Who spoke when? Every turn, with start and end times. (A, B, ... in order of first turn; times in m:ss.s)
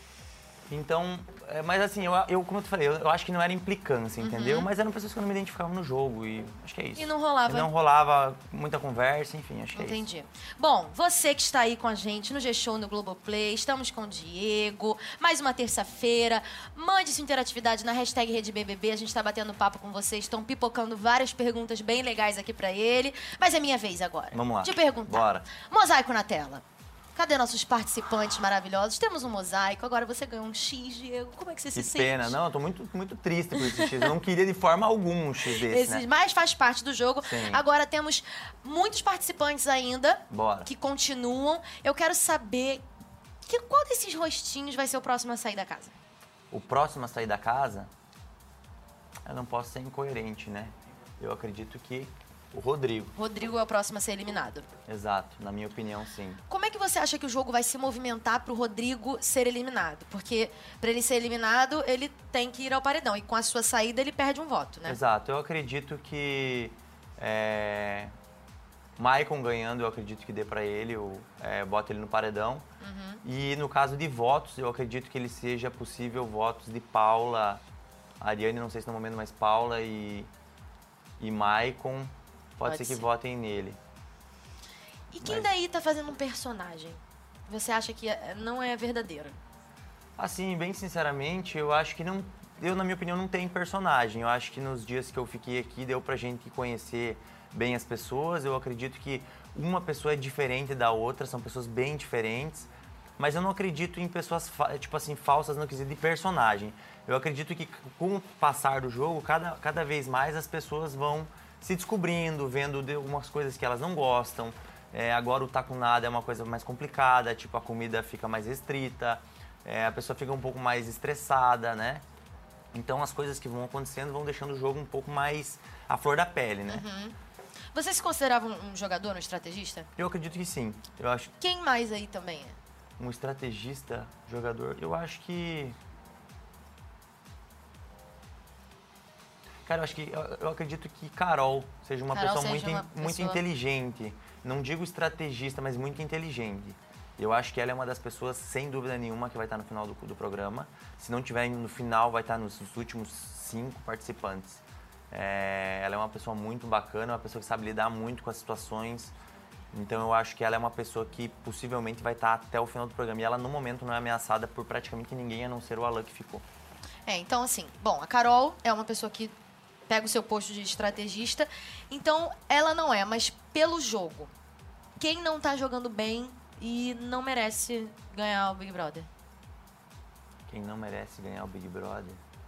0:00.7-0:10.1 A
0:04.2-0:04.7 B
0:07.0-0:07.7 B
0:09.8-0:26.6 B
0:24.3-0:25.5 A
0:27.2-0:32.4 B
0:31.8-0:36.0 A
0:35.7-0:42.8 B
0:37.2-0:37.6 A
0:40.3-0:40.7 A
0:43.5-0:45.9 B
0:46.5-0:47.9 A
0:49.2-0:53.1 A
0:53.2-0:54.7 B
0:54.9-0:56.4 A
0:56.5-1:05.0 B
1:04.8-1:08.1 A
1:09.0-1:12.6 A
1:12.8-1:13.2 B
1:13.2-1:17.6 A
1:18.2-1:20.3 A
1:21.2-1:23.8 A
1:22.6-1:23.0 B
1:25.1-1:29.4 B
1:25.2-1:25.5 A
1:30.2-2:02.0 A
2:02.7-2:06.9 A
2:06.7-2:07.1 B
2:07.7-2:09.9 B
2:10.0-2:11.3 A
2:11.4-2:12.6 B
2:13.0-2:15.8 A
2:19.7-2:39.1 A
2:22.1-2:23.4 B
2:39.7-2:46.4 A
2:47.1-2:49.3 B
2:49.9-2:54.3 B
2:55.0-2:59.1 B
3:00.5-3:02.2 A